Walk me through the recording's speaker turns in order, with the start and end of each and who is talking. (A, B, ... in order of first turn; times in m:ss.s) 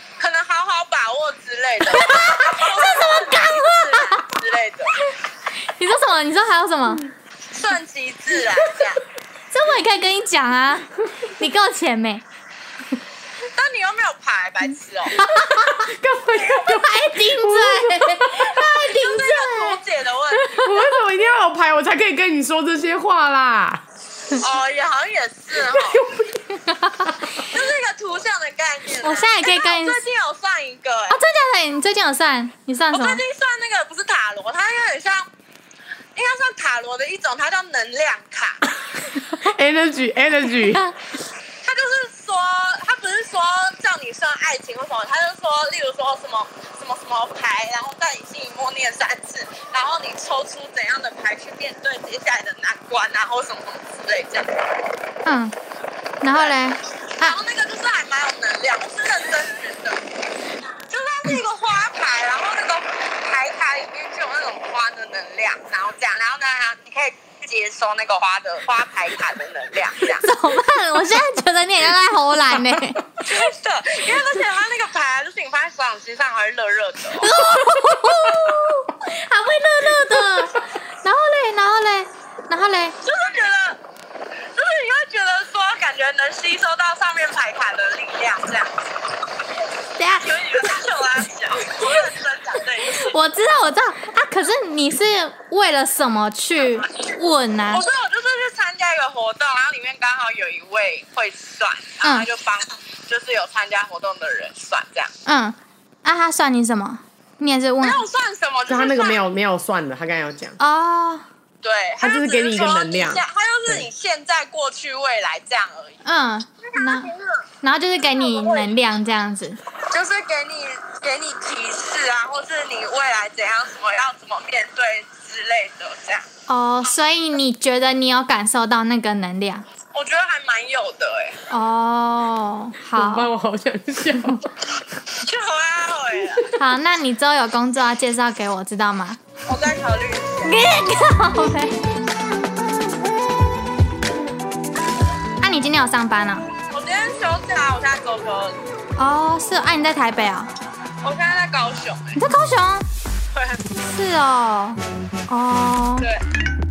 0:00.2-0:04.9 A
0:02.0-0:04.2 B
0:05.6-0:07.0 B
0:07.5-0:09.0 A
0:09.5-0:12.2 B
0:13.5-0:15.2 A
0:15.2-0:15.9 B
0:15.2-0:18.5 C
0:16.6-0:20.9 B
0:18.5-0:20.6 A
0:20.6-0:23.8 C
0:24.4-0:26.0 A
0:25.5-0:26.5 C
0:26.6-0:27.4 B
0:27.4-0:31.2 A
0:29.0-0:30.0 B
0:31.1-0:33.2 B
0:32.9-0:35.2 A
0:36.1-0:38.6 A
0:39.3-0:40.9 C
0:40.6-0:40.9 B
0:41.6-0:54.6 A
0:55.2-0:55.5 B
0:56.2-0:57.4 B
0:57.2-1:00.0 A
1:00.9-1:10.3 A
1:10.2-1:13.0 B
1:13.2-1:17.4 A
1:17.2-1:23.0 B
1:17.7-1:18.5 C
1:23.0-1:23.8 A
1:24.5-1:28.9 A
1:30.0-1:30.7 B
1:30.2-1:33.1 A
1:32.9-1:37.8 B
1:37.7-1:45.1 A
1:45.2-1:48.0 B
1:47.8-1:49.2 A
1:48.7-1:50.6 C
1:50.6-1:51.2 B
1:51.6-1:56.0 A
1:52.0-1:53.9 C
1:56.0-1:57.1 B
1:56.6-1:57.4 A
1:57.6-1:59.6 B
1:58.0-1:58.7 A
1:59.9-2:06.2 A
2:06.5-2:09.6 B
2:09.9-2:11.4 A
2:11.5-2:13.3 B
2:12.8-2:14.5 C
2:15.2-2:16.5 A
2:16.6-2:19.2 B
2:19.5-2:20.6 A
2:20.4-2:21.9 B
2:25.4-2:26.5 B
2:26.7-2:28.6 A
2:29.0-2:30.5 B
2:31.0-2:32.2 A
2:32.2-2:32.8 B
2:33.3-2:33.7 A
2:33.8-2:36.1 B